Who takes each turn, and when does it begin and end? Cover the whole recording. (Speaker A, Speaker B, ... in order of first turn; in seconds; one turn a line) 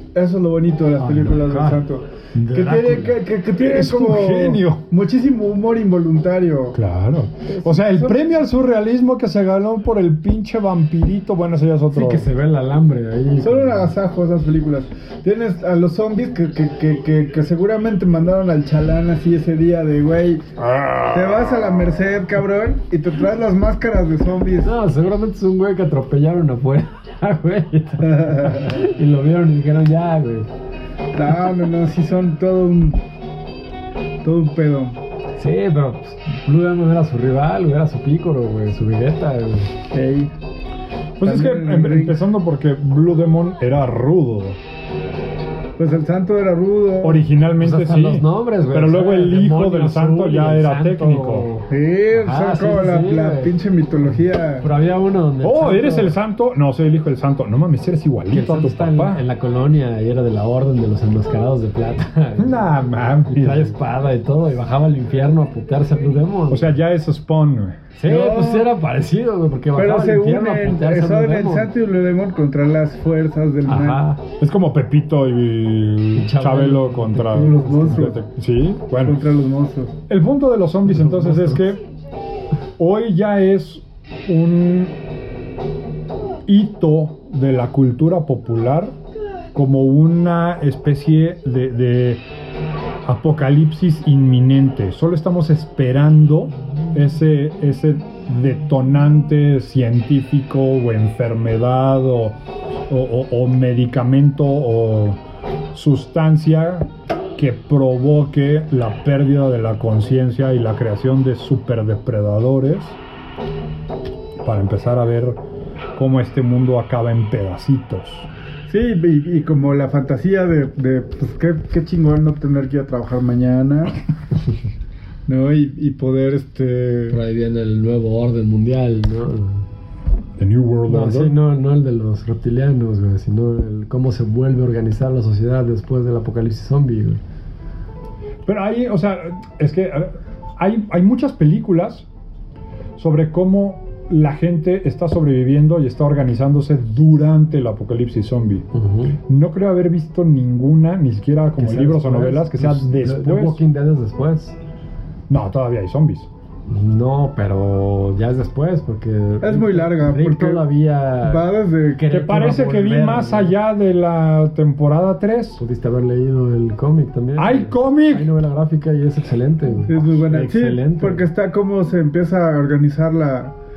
Speaker A: 0.1-6.8
Speaker B: 1.0-1.8
Speaker C: 2.3-2.9
Speaker B: 2.4-3.1
Speaker C: 3.5-4.8
Speaker C: 6.7-12.3
Speaker A: 7.5-8.4
Speaker B: 11.9-13.9
Speaker A: 13.4-20.4
Speaker C: 20.6-22.0
Speaker A: 21.1-24.7
Speaker B: 24.6-30.5
Speaker A: 28.0-28.8
Speaker A: 31.1-33.0
Speaker A: 34.2-35.0
Speaker B: 35.4-39.7
Speaker A: 39.9-40.3
Speaker C: 41.2-44.6
Speaker A: 41.2-42.2
Speaker A: 45.8-47.2
Speaker C: 47.0-51.5
Speaker B: 47.6-53.5
Speaker A: 51.7-54.7
Speaker B: 54.6-56.1
Speaker C: 55.4-59.2
Speaker B: 58.3-62.6
Speaker C: 62.4-63.7
Speaker B: 63.3-66.7
Speaker C: 66.5-67.8
Speaker B: 68.0-71.7
Speaker A: 68.1-68.7
Speaker A: 69.8-74.0
Speaker B: 73.7-74.2
Speaker C: 74.4-79.2
Speaker B: 76.2-78.1
Speaker A: 77.4-78.2
Speaker A: 79.0-79.9
Speaker C: 80.1-81.8
Speaker B: 80.9-81.6
Speaker C: 82.8-84.9
Speaker C: 86.5-88.9
Speaker C: 89.5-92.2
Speaker C: 93.0-102.3
Speaker C: 102.9-105.2
Speaker C: 105.7-113.0
Speaker C: 114.4-115.4
Speaker C: 116.0-118.3
Speaker A: 118.7-124.0
Speaker A: 125.3-127.2
Speaker B: 127.1-129.6
Speaker C: 130.4-131.3
Speaker B: 130.9-137.2
Speaker C: 138.4-142.1
Speaker C: 143.0-148.7
Speaker B: 148.7-149.2
Speaker C: 149.3-153.6
Speaker B: 151.6-154.6
Speaker C: 155.3-156.3
Speaker B: 156.7-163.5
Speaker A: 159.4-160.7
Speaker A: 161.2-162.1
Speaker C: 162.1-165.6
Speaker B: 165.6-171.3
Speaker C: 167.4-168.3
Speaker A: 169.8-173.5